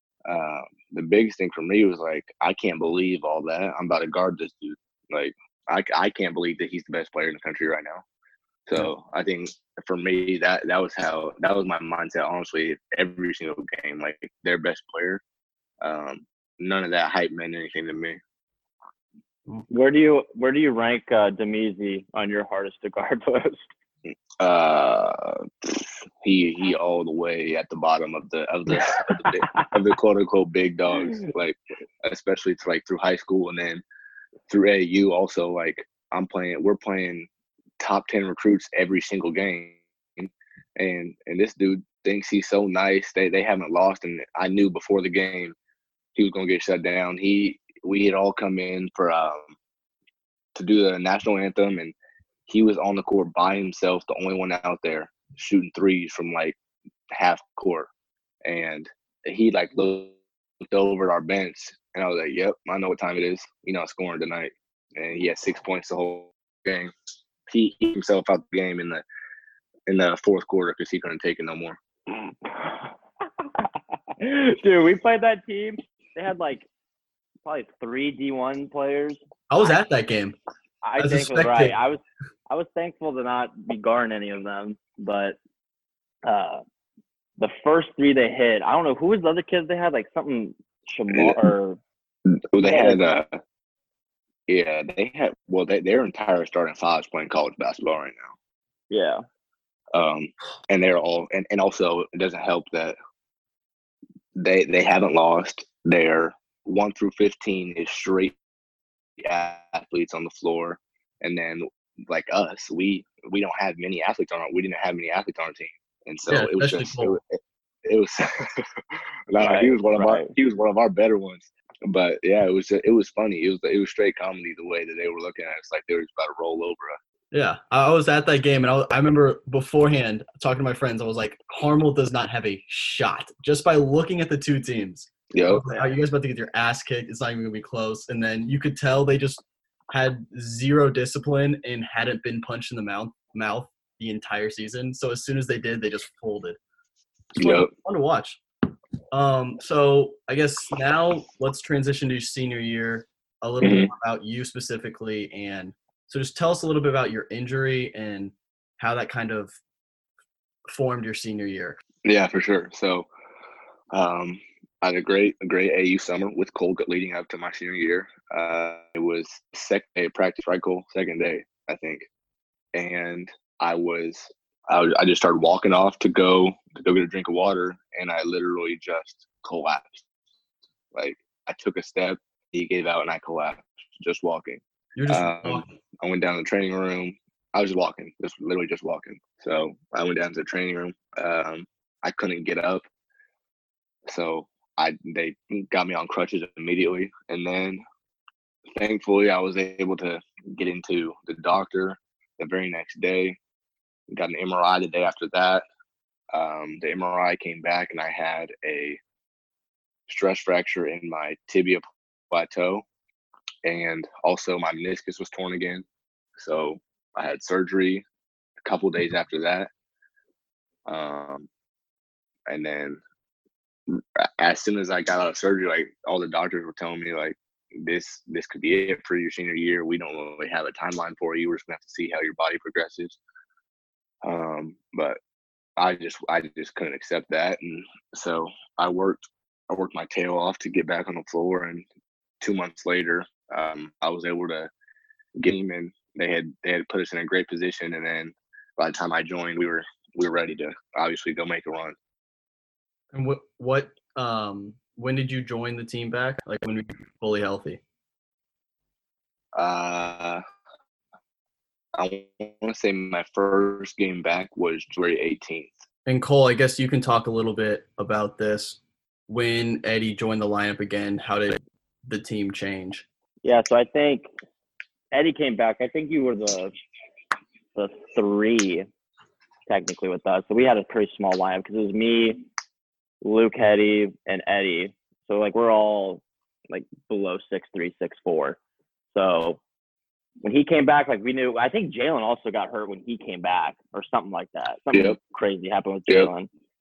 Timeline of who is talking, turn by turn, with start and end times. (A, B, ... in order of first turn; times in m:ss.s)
0:00.2-0:08.0 A
0:08.7-0:15.2 A
0:15.8-0:18.2 A
0:19.7-0:23.7 B
0:24.1-0:33.8 A
0:29.3-0:29.7 B
0:34.5-0:37.3 A
0:37.8-0:45.5 A
0:46.2-0:49.6 A
0:50.5-0:51.9 A
0:52.5-0:56.6 A
0:57.1-0:57.9 A
0:58.4-1:06.9 A
1:07.5-1:09.0 A
1:09.9-1:11.8 A
1:12.1-1:12.9 B
1:13.6-1:16.7 B
1:17.4-1:19.2 B
1:19.5-1:20.4 C
1:20.8-1:25.4 B
1:21.0-1:21.7 C
1:26.2-1:26.6 B
1:27.4-1:31.8 B
1:31.1-1:31.5 A
1:32.2-1:33.4 A
1:32.6-1:33.0 B
1:34.5-1:38.3 A
1:38.9-1:39.2 B
1:39.9-1:43.0 A
1:44.4-1:48.4 A
1:49.2-2:07.0 A
1:56.3-1:57.2 C
1:59.4-2:00.3 B
2:07.3-2:26.6 C
2:15.3-2:15.9 A
2:27.4-2:27.7 A
2:27.4-2:28.4 C
2:29.1-2:39.6 C
2:33.6-2:33.9 A
2:40.7-2:41.8 C
2:42.0-2:43.1 A
2:43.9-2:52.1 A
2:52.7-3:00.0 A
3:00.9-3:12.8 A
3:05.0-3:05.7 C
3:14.1-3:17.8 A
3:18.7-3:23.4 A
3:24.1-3:25.6 A
3:26.3-3:29.0 A
3:30.1-3:32.8 A
3:33.6-3:38.0 A
3:38.6-3:39.7 A
3:40.8-3:41.5 A
3:42.5-3:43.0 A
3:43.9-3:53.2 A
3:54.2-3:55.2 A
3:55.8-4:01.8 A
4:02.4-4:04.7 A
4:05.4-4:12.0 A
4:13.1-4:17.8 C
4:19.5-4:20.4 A
4:21.9-4:25.8 A
4:26.1-4:33.0 C
4:33.4-4:34.3 B
4:35.1-4:36.7 B
4:37.7-4:38.8 B
4:39.7-4:42.4 B
4:43.2-4:48.6 B
4:49.1-4:49.6 B
4:50.4-4:56.5 B